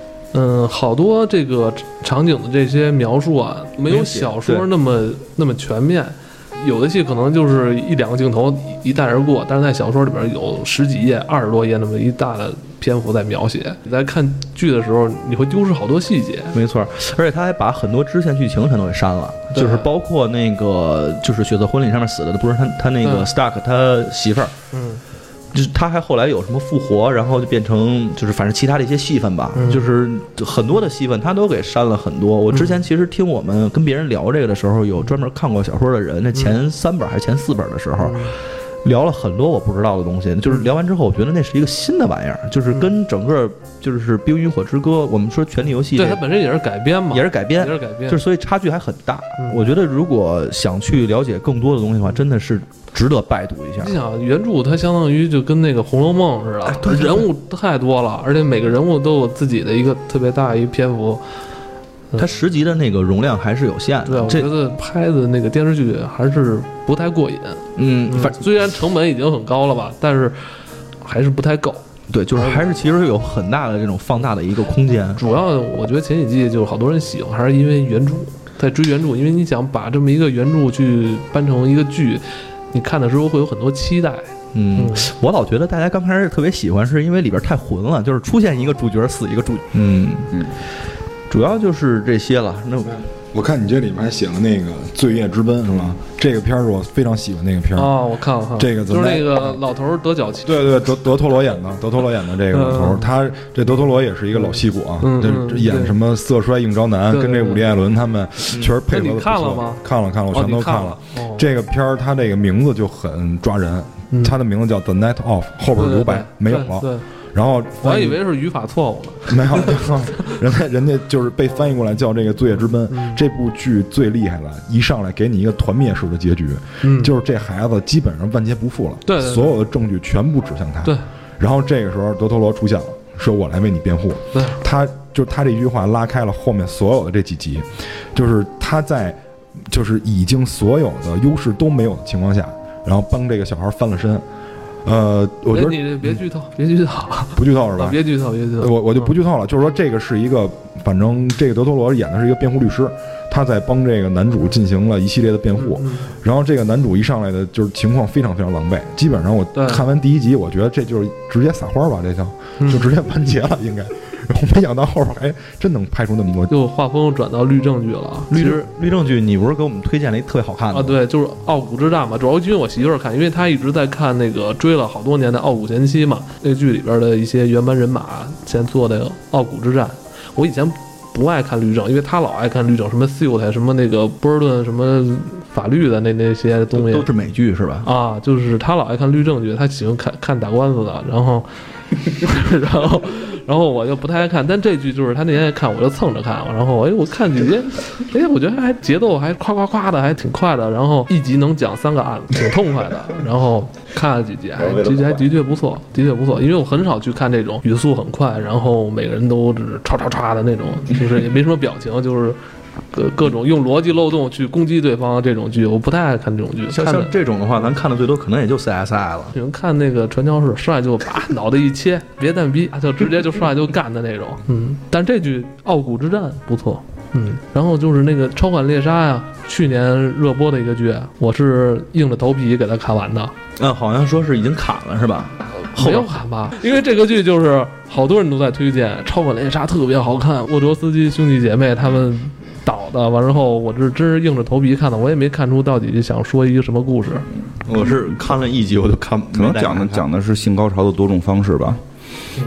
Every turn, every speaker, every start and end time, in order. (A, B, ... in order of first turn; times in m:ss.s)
0:00.3-0:16.6 A
0:03.9-0:04.7 B
0:16.5-0:24.5 B
0:19.5-0:19.9 A
0:23.0-0:23.3 A
0:24.7-0:25.0 A
0:25.5-0:46.2 B
0:29.6-0:29.8 A
0:32.5-0:32.8 A
0:38.0-0:38.4 A
0:45.9-0:48.2 A
0:47.1-0:54.0 B
0:53.8-1:01.2 A
0:56.6-0:57.3 B
1:02.2-1:04.5 B
1:04.1-1:10.4 A
1:07.8-1:08.4 B
1:11.0-1:11.8 A
1:12.1-1:15.2 B
1:12.4-1:12.7 A
1:15.2-1:25.1 A
1:24.5-1:30.3 B
1:31.3-1:33.1 B
1:33.3-1:38.0 C
1:35.7-1:36.0 B
1:37.8-1:40.6 A
1:38.6-1:39.6 C
1:40.4-1:58.2 C
1:42.5-1:43.1 A
1:44.4-1:46.0 A
1:47.1-1:47.6 A
1:48.9-1:51.4 A
1:55.8-1:57.0 A
1:57.8-2:00.3 A
1:59.3-2:24.2 C
2:02.9-2:03.2 A
2:06.8-2:07.1 A
2:09.1-2:09.6 A
2:14.3-2:14.6 A
2:24.8-2:26.2 C
2:25.5-2:29.1 A
2:27.4-2:28.0 C
2:28.6-2:46.5 C
2:35.6-2:36.1 A
2:39.6-2:39.8 A
2:42.6-2:42.9 A
2:46.5-2:48.7 A
2:48.3-2:51.0 B
2:50.7-3:07.1 A
3:06.7-3:07.9 B
3:07.8-3:11.5 A
3:12.1-3:32.4 A
3:24.6-3:25.3 D
3:32.9-3:37.1 A
3:36.7-3:39.4 B
3:39.3-3:53.3 A
3:53.6-3:56.1 B
3:55.8-4:07.3 A
4:07.7-4:10.0 B
4:09.3-4:11.8 D